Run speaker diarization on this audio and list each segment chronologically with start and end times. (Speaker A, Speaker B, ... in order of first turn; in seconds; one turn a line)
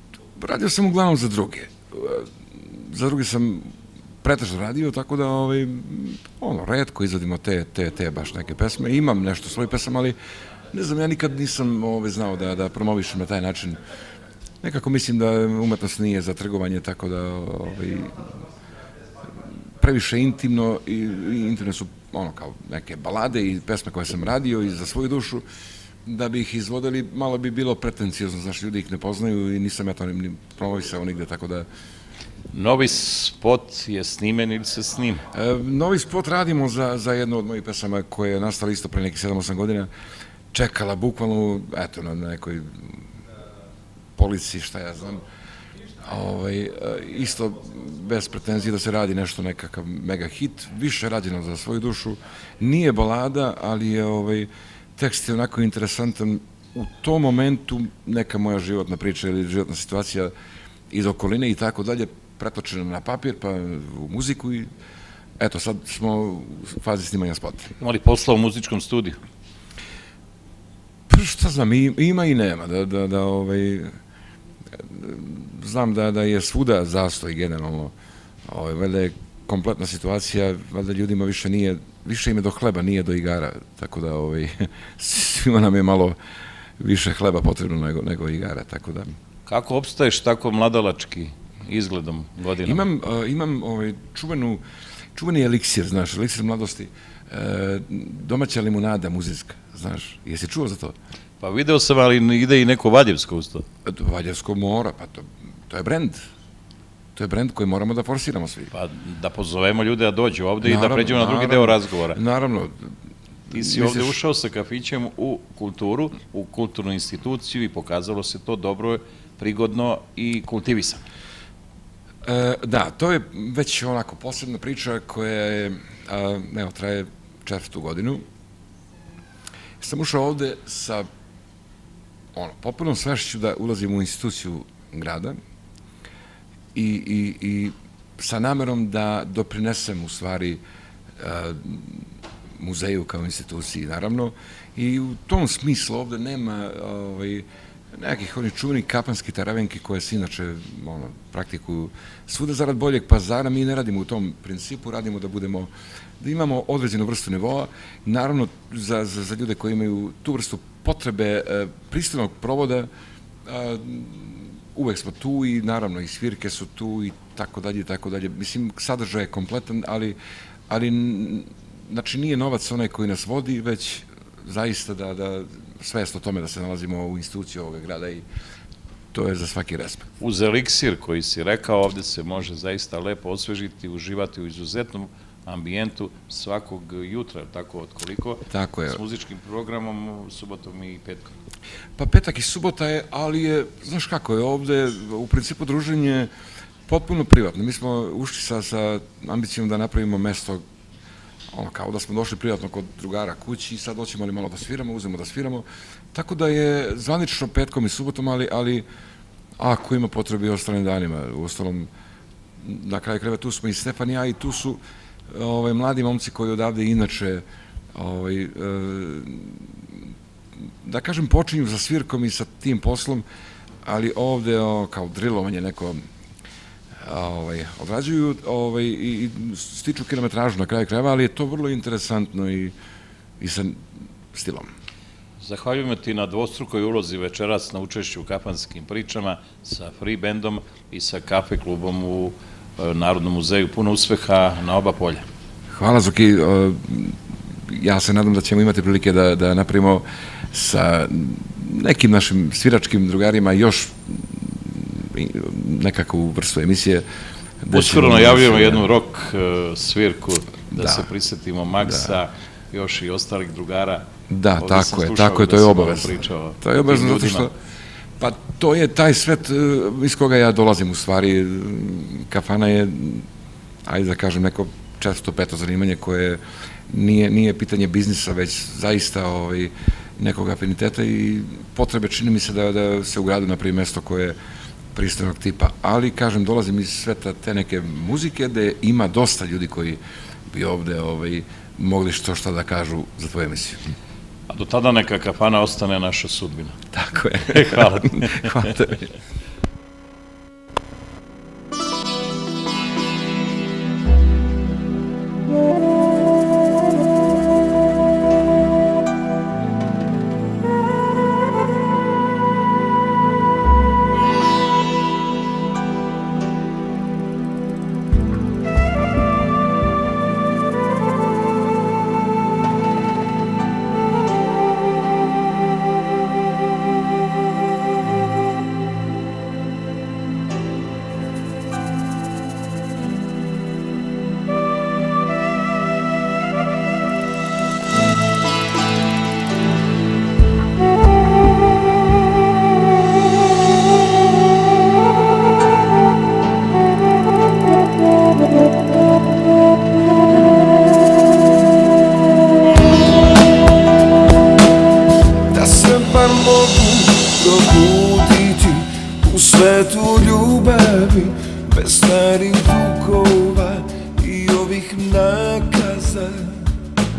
Speaker A: 0.4-2.3
Speaker A: 2.9-3.7
Speaker A: 4.2-10.2
Speaker A: 10.7-13.8
Speaker A: 14.6-18.1
Speaker A: 19.8-25.4
Speaker A: 26.1-31.6
Speaker B: 32.5-35.2
Speaker A: 35.3-39.9
Speaker A: 40.5-42.7
Speaker A: 44.2-45.2
Speaker A: 46.0-60.3
Speaker A: 60.9-64.7
Speaker A: 65.4-67.7
Speaker B: 67.8-69.2
Speaker A: 71.1-73.9
Speaker A: 74.9-77.9
Speaker A: 78.5-86.2
Speaker A: 86.8-89.1
Speaker B: 89.5-92.9
Speaker A: 92.6-94.6
Speaker A: 95.1-100.9
Speaker B: 101.4-103.6
Speaker A: 103.9-106.2
Speaker A: 107.2-108.7
Speaker B: 108.7-112.2
Speaker A: 110.6-112.7
Speaker B: 113.5-121.0
Speaker A: 113.6-114.1
Speaker A: 122.3-128.2
Speaker A: 129.8-131.0
Speaker A: 132.3-135.4
Speaker A: 136.7-140.6
Speaker A: 141.2-142.0
Speaker A: 142.6-147.4
Speaker A: 148.0-162.9
Speaker A: 163.5-170.2
Speaker A: 170.7-178.2
Speaker A: 179.1-180.0
Speaker B: 180.2-191.3
Speaker A: 188.5-189.0
Speaker A: 192.0-196.3
Speaker A: 196.9-200.6
Speaker A: 201.5-208.8
Speaker A: 209.6-211.9
Speaker A: 212.6-214.8
Speaker A: 215.3-217.4
Speaker A: 217.9-219.6
Speaker A: 220.8-223.2
Speaker A: 223.8-226.0
Speaker A: 227.1-232.7
Speaker A: 233.4-233.8
Speaker A: 234.3-234.7
Speaker B: 235.4-245.2
Speaker A: 245.8-247.1
Speaker A: 247.7-250.0
Speaker A: 250.5-253.9
Speaker A: 254.8-257.0
Speaker A: 257.7-258.8
Speaker B: 257.7-267.5
Speaker A: 260.7-261.1
Speaker A: 264.3-267.5
Speaker A: 268.2-273.2
Speaker A: 273.9-276.4
Speaker A: 276.9-284.3
Speaker A: 284.9-290.0
Speaker A: 290.5-293.8
Speaker B: 294.5-296.8
Speaker A: 296.9-299.0
Speaker B: 297.5-298.6
Speaker C: 355.5-366.7